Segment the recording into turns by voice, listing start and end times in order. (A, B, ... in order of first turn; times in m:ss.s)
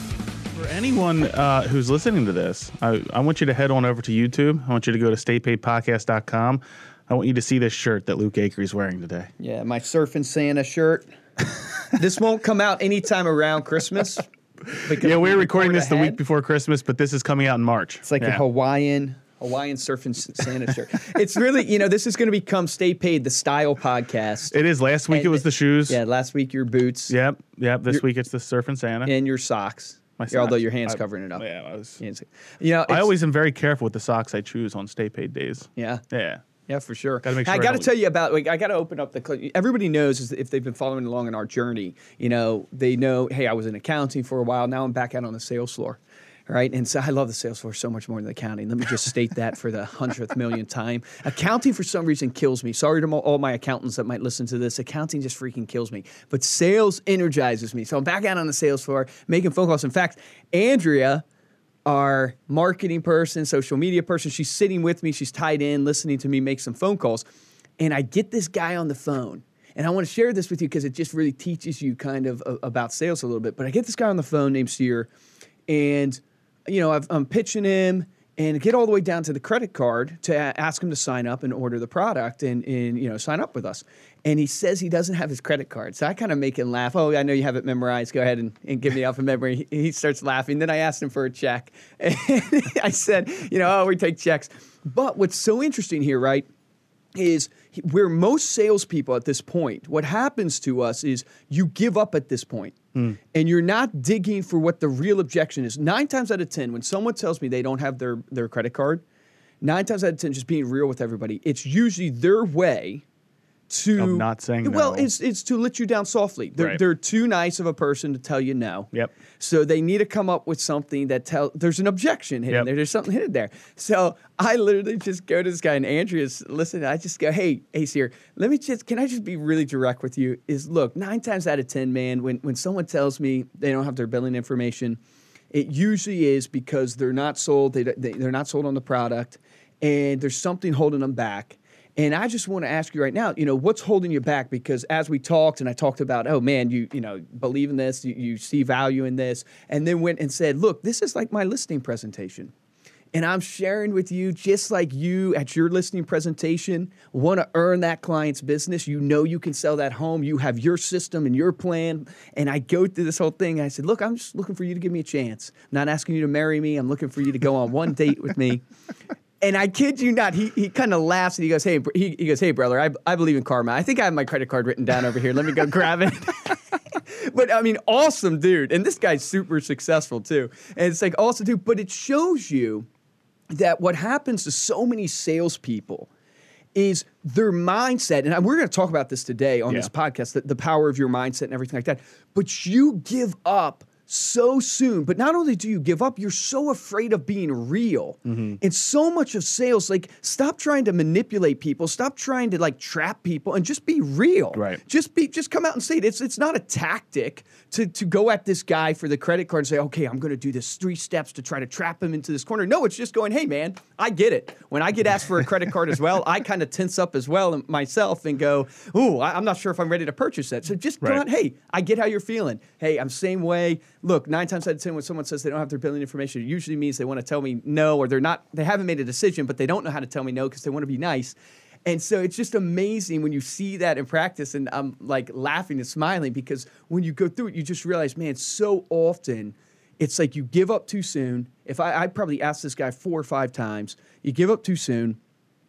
0:00.5-0:09.3 A
0:09.4-0:11.1 B
0:11.9-0:14.2 B
0:14.7-0:18.4 A
0:14.8-0:16.2 B
0:18.0-0:24.6 B
0:24.5-0:26.0 A
0:25.1-0:27.1 B
0:27.1-0:29.1 A
0:29.0-0:31.4 B
0:30.2-0:32.0 A
0:32.0-0:33.1 B
0:32.9-0:36.4 A
0:35.8-0:36.0 B
0:36.7-1:01.2 B
0:37.2-0:37.9 A
1:01.8-1:07.2 B
1:07.8-1:15.1 B
1:15.7-1:36.5 B
1:37.1-1:42.8 B
1:43.3-1:49.0 B
1:49.6-1:53.0 B
1:53.7-2:15.0 B
1:54.0-1:55.1 A
2:15.5-2:32.5 B
2:33.1-2:48.6 B
2:49.4-3:02.9 B
3:03.5-3:06.1 B
3:06.7-4:05.2 B
3:18.2-3:18.6 A
3:24.5-3:24.8 A